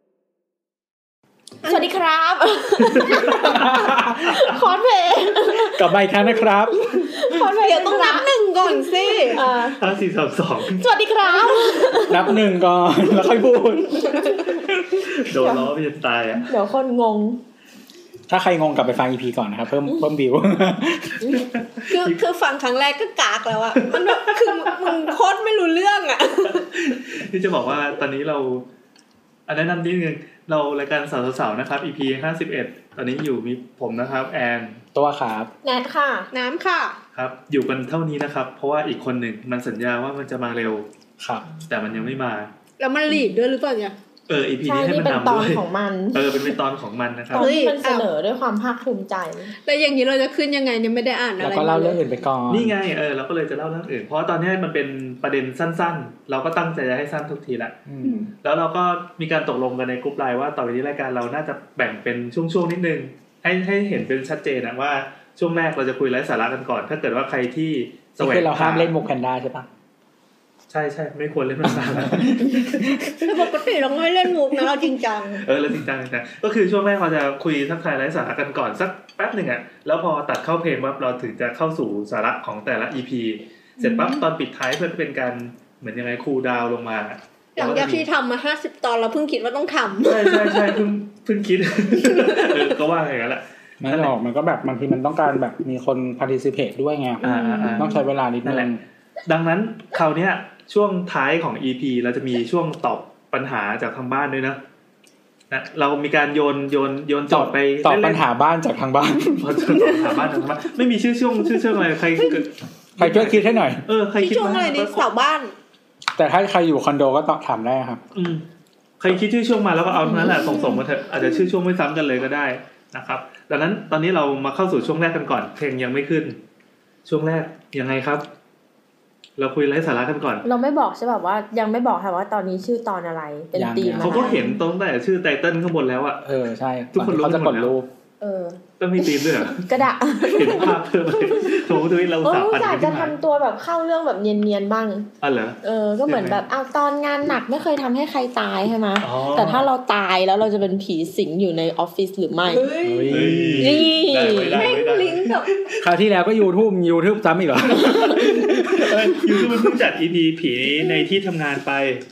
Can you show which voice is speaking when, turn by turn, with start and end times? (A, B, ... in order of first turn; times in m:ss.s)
0:01.6-0:05.8 A
0:03.4-0:04.2 B
0:05.6-0:07.2 B
0:06.9-0:08.3 A
0:07.3-0:09.4 C
0:09.3-0:09.8 A
0:09.8-0:10.8 D
0:10.8-0:12.2 A
0:12.0-0:15.0 B
0:15.1-0:16.5 D
0:16.5-0:17.4 A
0:18.3-0:21.4 B
0:21.9-0:26.6 C
0:26.5-0:28.6 D
0:29.5-0:34.8 D
0:34.9-0:35.5 B
0:35.6-0:36.3 A
0:36.3-0:37.0 C
0:37.1-0:40.8 D
0:41.2-0:41.4 B
0:41.6-0:42.5 D
0:42.8-0:44.0 C
0:44.3-0:47.5 D
0:44.6-0:46.4 A
0:47.3-0:49.5 A
0:47.3-0:48.1 C
0:49.6-0:52.0 C
0:51.4-0:52.7 B
0:52.5-0:57.8 D
0:57.8-0:58.3 B
0:58.0-0:58.3 C
0:58.4-1:08.9 D
1:08.2-1:09.7 B
1:10.7-1:12.9 D
1:11.6-1:13.2 B
1:13.2-1:15.4 C
1:15.4-1:28.0 D
1:23.8-1:24.2 C
1:27.6-1:30.8 C
1:30.0-1:34.1 D
1:31.9-1:32.6 C
1:33.8-1:38.8 B
1:37.2-1:37.9 D
1:37.2-1:37.7 C
1:37.3-1:37.6 A
1:38.4-1:38.7 D
1:39.2-1:44.6 D
1:45.5-1:48.2 D
1:47.3-1:49.9 B
1:49.4-1:55.0 D
1:53.0-1:53.8 B
1:54.2-1:55.5 C
1:56.2-1:58.0 B
1:58.1-1:58.4 D
1:59.0-2:06.4 D
2:00.1-2:00.4 A
2:00.3-2:00.8 C
2:07.0-2:08.2 D
2:09.4-2:10.4 D
2:10.4-2:14.6 A
2:13.5-2:14.4 B
2:14.0-2:16.2 D
2:16.2-2:17.9 B
2:16.9-2:17.7 D
2:18.2-2:20.8 A
2:18.8-2:23.1 D
2:22.2-2:25.1 A
2:25.2-2:26.4 D
2:25.6-2:32.7 A
2:29.0-2:29.7 D
2:32.5-2:33.3 C
2:32.8-2:33.9 B
2:33.1-2:35.8 D
2:33.6-2:34.7 A
2:34.3-2:35.5 C
2:35.8-2:39.5 B
2:38.2-2:42.0 D